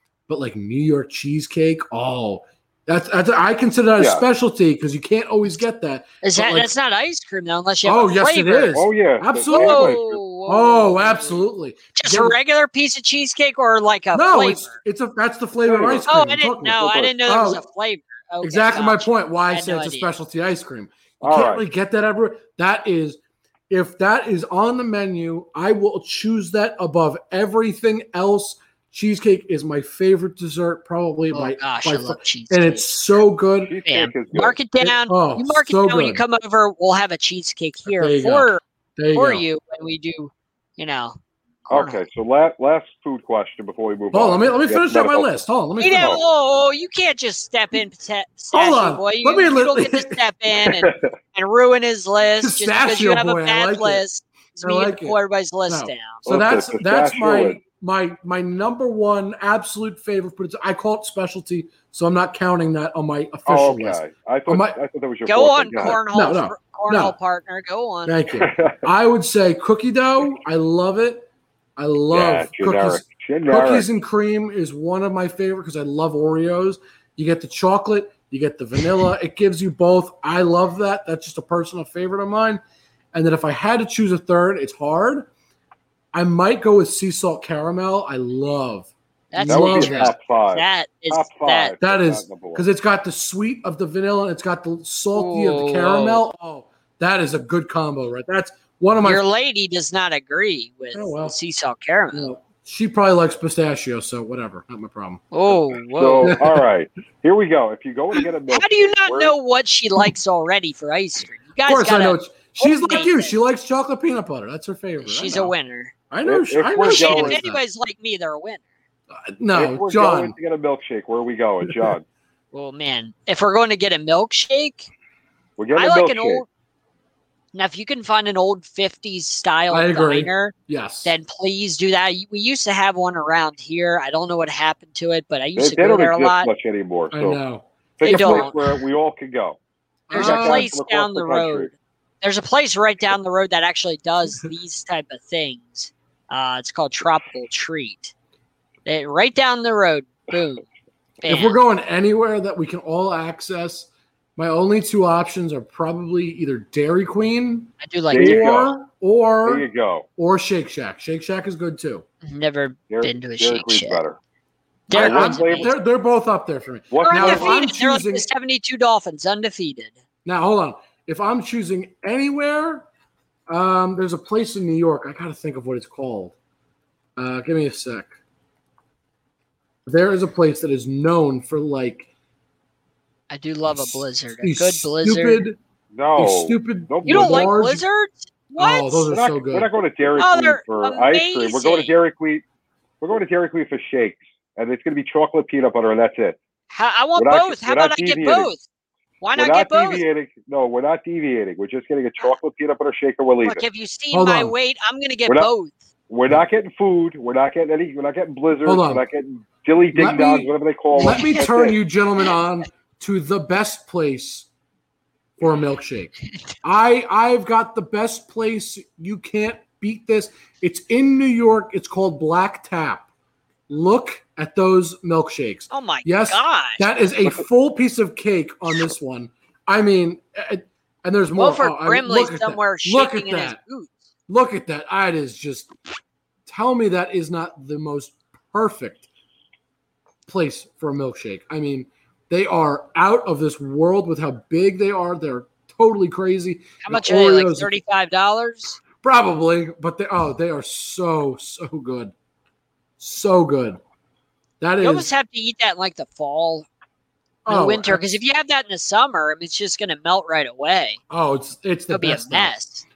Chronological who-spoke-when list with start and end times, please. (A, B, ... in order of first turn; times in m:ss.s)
0:00.3-0:06.7 A
0:04.0-0:04.2 B
0:06.2-0:08.8 C
0:07.8-0:12.4 A
0:08.7-0:10.2 B
0:09.5-0:11.4 C
0:11.9-0:14.8 C
0:14.1-0:17.6 A
0:15.6-0:16.1 B
0:16.1-0:20.1 C
0:16.8-0:17.1 B
0:18.4-0:33.7 A
0:21.2-0:21.6 B
0:31.3-0:32.9 C
0:33.6-0:34.6 B
0:33.8-0:38.6 C
0:34.8-0:36.2 A
0:37.9-0:39.4 A
0:39.1-0:42.0 C
0:41.7-0:45.3 B
0:44.1-0:46.2 A
0:45.8-0:56.2 C
0:45.9-0:46.2 B
0:48.5-0:50.2 A
0:50.7-0:51.0 B
0:52.4-0:54.0 A
0:54.6-1:04.8 A
0:56.2-0:57.6 B
1:03.5-1:06.0 B
1:05.2-1:08.2 C
1:06.1-1:07.2 A
1:08.0-1:22.6 A
1:08.3-1:08.8 B
1:12.1-1:13.9 B
1:23.1-1:25.3 A
1:26.1-1:30.2 A
1:29.3-1:31.7 C
1:29.4-1:32.6 B
1:31.8-1:39.2 A
1:35.1-1:36.2 C
1:39.0-1:42.3 C
1:40.9-1:41.4 A
1:42.1-1:45.3 A
1:45.3-1:46.4 C
1:45.5-1:49.3 B
1:46.2-1:46.6 A
1:48.5-1:53.3 C
1:51.6-1:55.5 A
1:55.0-1:55.9 C
1:56.1-1:57.6 A
1:56.2-1:57.4 B
1:56.8-1:58.6 C
1:59.1-2:00.3 A
1:59.5-2:02.0 B
2:01.6-2:01.9 A
2:02.5-2:04.9 C
2:05.6-2:06.4 B
2:05.7-2:06.4 C
2:07.5-2:10.5 C
2:09.7-2:11.1 A
2:11.0-2:16.5 C
2:15.6-2:17.4 B
2:17.1-2:18.6 A
2:18.0-2:19.6 B
2:18.0-2:18.6 C
2:20.1-2:20.7 A
2:20.1-2:28.1 C
2:20.1-2:21.7 B
2:28.8-2:30.6 C
2:31.2-2:31.6 C
2:31.2-2:39.6 A
2:37.8-2:38.4 C
2:38.1-2:38.8 B
2:39.4-2:40.1 B
2:40.2-2:42.0 A
2:42.2-2:44.0 C
2:42.9-2:44.2 B
2:44.9-2:45.7 C
2:44.9-2:45.7 B
2:44.9-2:48.3 A
2:46.9-2:47.6 B
2:47.0-2:49.9 C
2:50.2-2:52.8 A
2:53.5-2:56.3 A
2:57.2-2:58.1 A
2:59.8-3:02.1 A
3:03.3-3:05.4 C
3:03.7-3:05.6 A
3:05.9-3:07.5 B
3:06.2-3:07.8 A
3:07.0-3:09.1 C
3:08.6-3:09.7 A
3:09.1-3:12.4 B
3:10.2-3:11.9 C
3:13.0-3:16.4 B
3:16.7-3:18.6 C
3:17.2-3:18.5 B
3:19.2-3:20.0 C
3:19.4-3:23.6 B
3:23.4-3:25.7 C
3:24.1-3:24.5 A
3:26.1-3:31.8 B
3:28.6-3:29.0 A
3:29.9-3:34.5 A
3:31.0-3:31.4 C
3:35.4-3:43.0 A
3:43.7-3:53.6 A
3:45.7-3:46.8 C
3:51.4-3:54.0 C
3:54.3-3:55.7 A
3:56.4-3:59.1 A
4:00.2-4:07.8 A
4:06.8-4:08.8 C
4:09.0-4:12.1 A
4:13.0-4:13.8 A
4:14.6-4:15.1 A
4:14.8-4:16.7 C
4:17.4-4:18.0 A
4:17.5-4:21.0 C
4:21.1-4:22.5 A
4:21.9-4:22.8 C